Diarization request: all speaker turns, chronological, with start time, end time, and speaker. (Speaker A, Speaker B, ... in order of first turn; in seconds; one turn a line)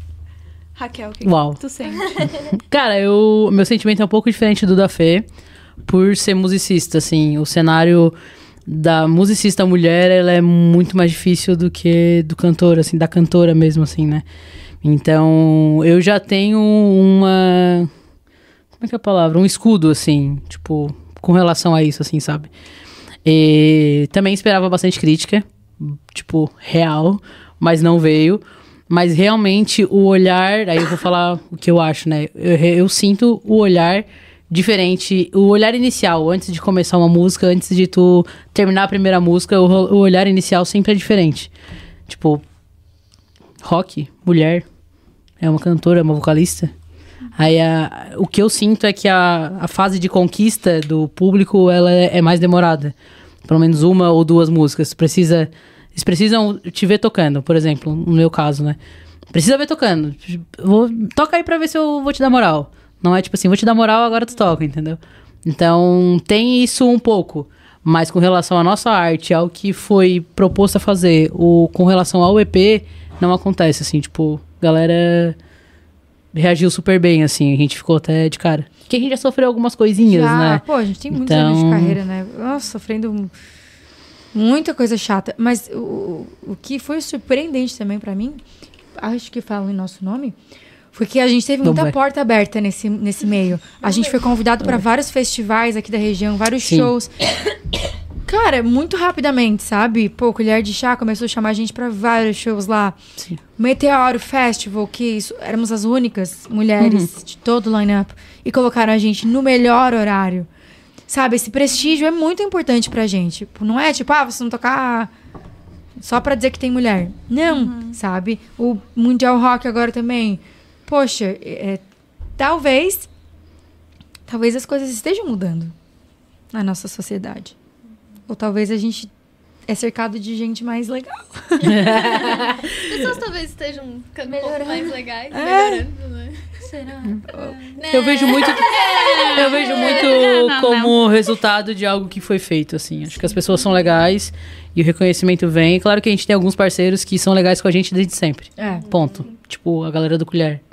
Speaker A: 0.8-2.3
Speaker B: 1.2-1.6
Speaker B: 2.3-5.3
Speaker B: 5.8-8.1
Speaker B: 8.7-14.2
Speaker B: 14.8-17.9
Speaker B: 18.8-22.5
Speaker B: 23.2-41.5
Speaker B: 42.1-42.4
Speaker B: 43.6-44.7
Speaker B: 45.4-46.7
Speaker B: 47.4-52.9
Speaker B: 53.5-58.8
Speaker B: 59.3-75.4
Speaker B: 76.3-82.0
Speaker C: 80.0-83.3
Speaker C: 84.3-88.4
Speaker C: 89.0-90.4
Speaker C: 90.9-97.1
Speaker B: 91.6-92.0
Speaker B: 96.6-96.9
Speaker C: 98.3-103.0
Speaker C: 103.6-110.5
Speaker B: 106.8-107.1
Speaker C: 111.1-115.1
Speaker C: 116.0-121.8
Speaker A: 117.5-118.0
Speaker C: 122.4-123.1
Speaker C: 124.3-125.7
Speaker C: 126.5-127.5
Speaker C: 128.3-129.1
Speaker C: 129.7-132.3
Speaker B: 131.6-132.8
Speaker D: 131.9-136.6
Speaker E: 134.3-135.0
Speaker C: 135.3-135.9
Speaker E: 136.6-140.0
Speaker D: 137.8-139.8
Speaker B: 137.9-150.6
Speaker A: 138.9-141.0
Speaker C: 148.6-148.9